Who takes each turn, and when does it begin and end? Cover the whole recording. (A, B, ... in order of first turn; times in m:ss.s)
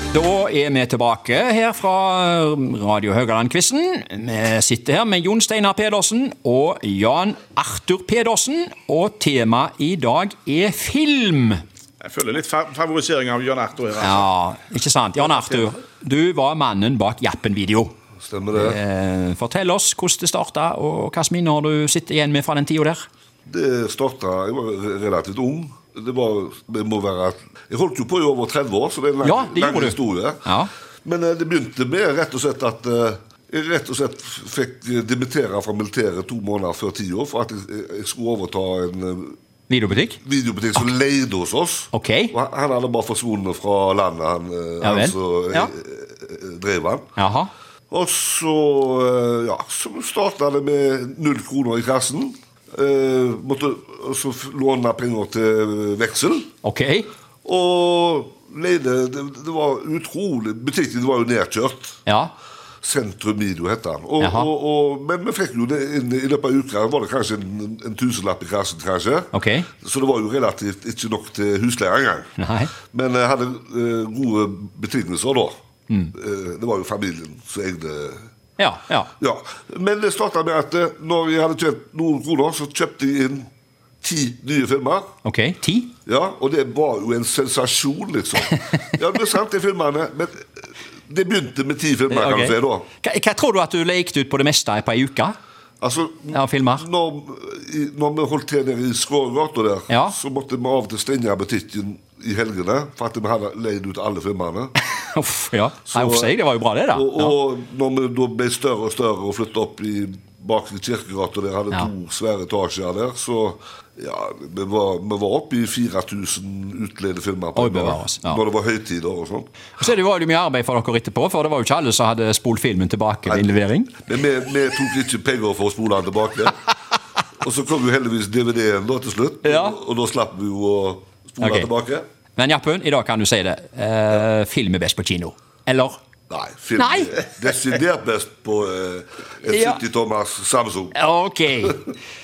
0:00.1-0:11.6 A
0:12.0-0:14.3 B
0:14.0-0:17.9 A
0:18.2-0:18.8 C
0:18.6-0:23.0 A
0:23.5-0:30.5 C
0:29.2-0:30.7 A
0:31.0-0:39.4 C
0:39.7-0:40.2 A
0:40.2-0:47.1 C
0:41.9-0:42.4 A
0:44.8-0:45.7 A
0:47.2-0:47.5 A
0:47.9-0:56.5 C
0:56.6-0:57.1 A
0:57.4-1:02.0 C
1:02.1-1:02.3 A
1:02.8-1:12.3 C
1:04.2-1:04.5 A
1:09.3-1:09.7 A
1:12.4-1:12.7 A
1:12.9-1:15.5 C
1:15.9-1:16.1 A
1:16.1-1:18.2 C
1:18.6-1:19.1 A
1:19.2-1:23.5 C
1:24.0-1:25.1 C
1:25.2-1:26.0 A
1:26.1-1:32.9 C
1:32.1-1:35.4 A
1:35.8-1:44.7 C
1:36.3-1:36.9 A
1:39.9-1:40.2 A
1:45.0-1:47.4 A
1:45.9-1:46.4 C
1:46.9-1:59.5 C
1:57.6-1:58.4 A
1:59.8-2:04.1 A
2:03.3-2:06.7 C
2:07.4-2:12.0 C
2:09.4-2:09.8 A
2:11.4-2:11.7 A
2:12.4-2:16.0 A
2:16.3-2:21.0 C
2:16.8-2:17.3 A
2:19.4-2:19.8 A
2:20.9-2:21.8 A